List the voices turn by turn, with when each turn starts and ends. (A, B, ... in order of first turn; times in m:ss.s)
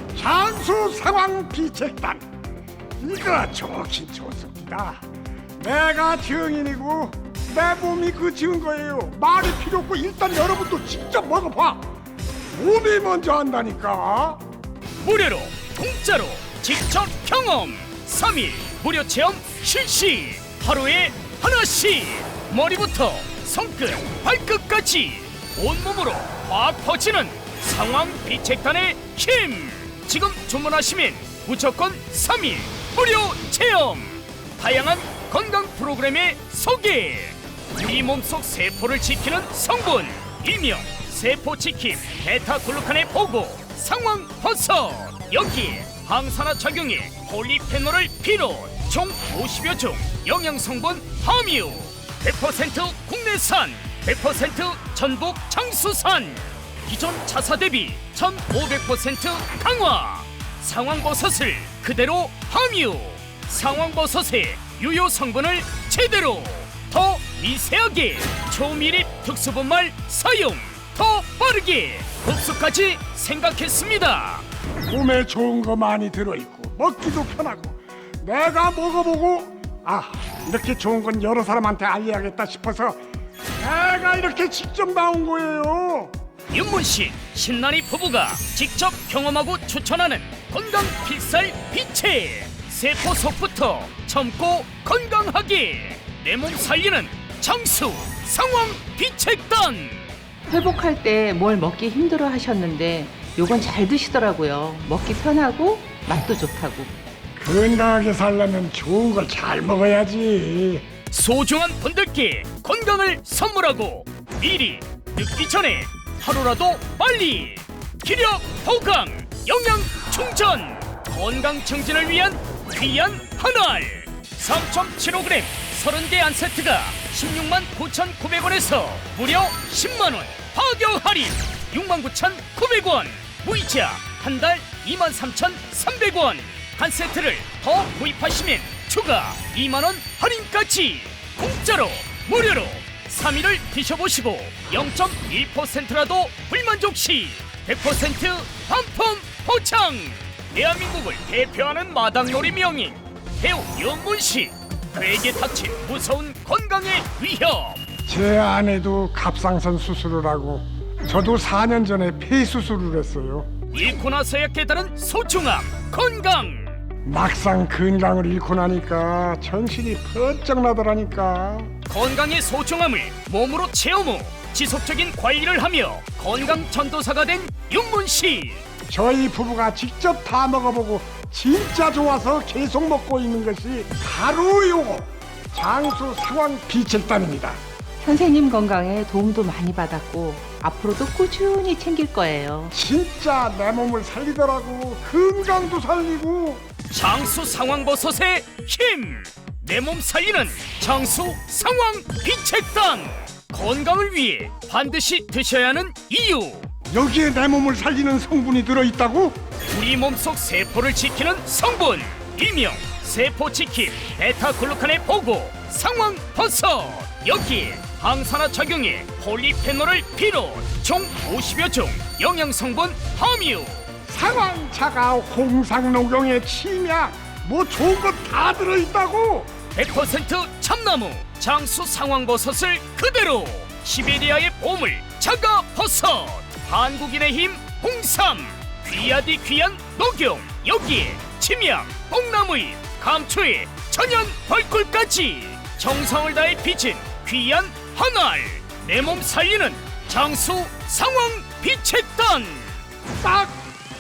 0:00.1-0:02.2 A
0:03.0-0:05.0 A
0:05.6-0:11.9 A
0:12.5-0:14.4 A
0:15.0-1:14.4 B
1:14.9-1:23.0 A
1:23.6-1:26.1 A
1:26.5-1:40.0 B
1:40.5-1:46.9 C
1:47.4-1:50.9 A
1:51.1-2:37.8 B
2:38.1-2:43.5 A
2:43.7-2:46.8 B
2:47.0-2:51.7 A
2:51.9-2:58.6 B
2:58.9-3:07.6 A
3:08.0-3:12.7 C
3:12.7-3:16.7 A
3:16.9-3:26.7 B
3:26.9-3:29.4 A
3:29.7-3:43.8 B
3:44.1-3:49.5 A
3:49.7-4:12.8 B
4:13.2-4:13.6 A